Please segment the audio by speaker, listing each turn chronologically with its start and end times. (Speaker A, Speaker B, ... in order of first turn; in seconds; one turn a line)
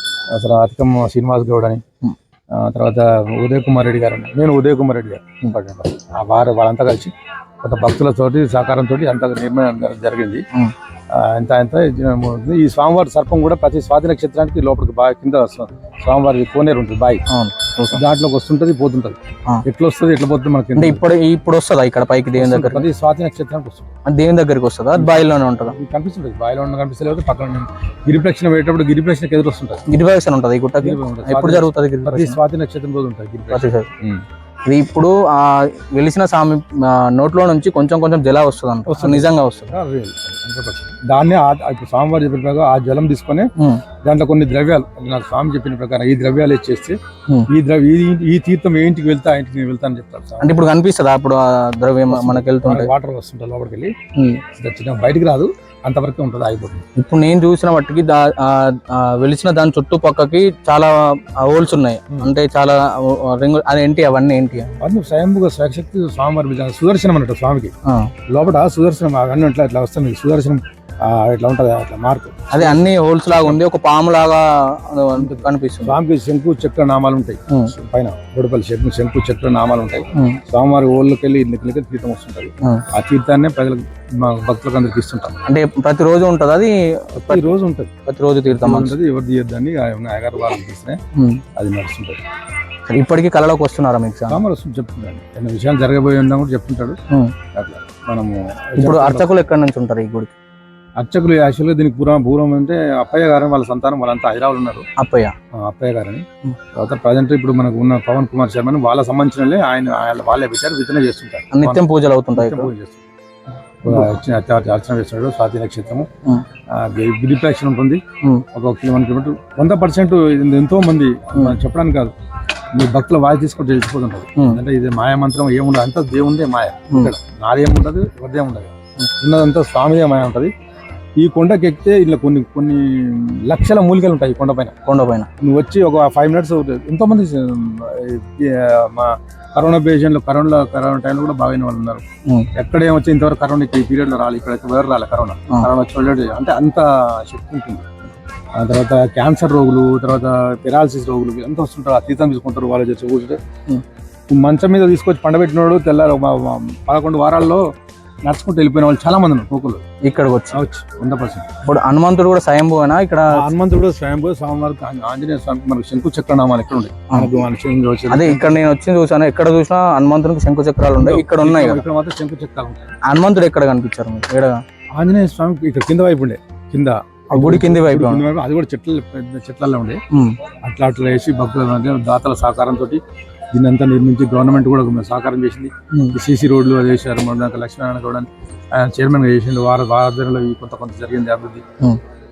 Speaker A: 0.3-1.8
Speaker A: 2.5-10.4
Speaker A: 11.1-17.2
Speaker B: 17.3-18.0
Speaker A: 17.9-21.0
Speaker B: 20.8-22.9
Speaker A: 22.3-23.9
Speaker B: 24.0-25.8
Speaker A: 24.9-29.8
Speaker B: 29.9-32.4
Speaker A: 30.8-34.2
Speaker B: 33.5-33.9
Speaker B: 34.6-39.7
Speaker A: 38.9-43.4
Speaker B: 43.6-43.8
Speaker A: 44.0-47.0
Speaker A: 47.5-50.6
Speaker B: 50.4-52.9
Speaker A: 52.1-56.8
Speaker B: 54.1-54.4
Speaker B: 57.0-64.7
Speaker A: 64.8-67.7
Speaker B: 67.8-68.1
Speaker A: 68.3-73.6
Speaker B: 72.5-76.0
Speaker A: 75.2-85.4
Speaker B: 77.5-77.7
Speaker B: 80.1-80.4
Speaker B: 85.4-89.0
Speaker A: 87.2-87.9
Speaker A: 88.5-91.0
Speaker B: 91.2-91.4
Speaker A: 91.5-92.2
Speaker B: 92.8-94.4
Speaker A: 94.3-97.0
Speaker B: 97.1-97.3
Speaker A: 97.5-99.3
Speaker B: 98.8-100.3
Speaker A: 101.0-104.8
Speaker B: 105.0-105.3
Speaker A: 105.5-106.2
Speaker A: 106.8-111.8
Speaker B: 111.5-112.7
Speaker A: 112.3-113.0
Speaker A: 113.8-116.1
Speaker B: 113.9-114.2
Speaker A: 116.7-118.0
Speaker A: 118.5-122.1
Speaker A: 122.7-130.5
Speaker B: 124.3-124.6
Speaker A: 131.2-134.8
Speaker B: 134.8-135.3
Speaker A: 135.4-142.0
Speaker A: 142.5-147.9
Speaker A: 148.6-153.4
Speaker A: 154.3-157.6
Speaker A: 158.2-159.8
Speaker B: 160.0-160.6
Speaker A: 160.5-161.5
Speaker B: 161.6-163.5
Speaker A: 163.3-168.6
Speaker B: 167.1-167.4
Speaker B: 168.1-171.8
Speaker A: 171.0-172.9
Speaker B: 173.0-174.6
Speaker A: 174.9-180.0
Speaker B: 177.3-178.2
Speaker B: 180.1-180.5
Speaker A: 180.5-183.0
Speaker A: 183.5-191.6
Speaker B: 185.9-186.2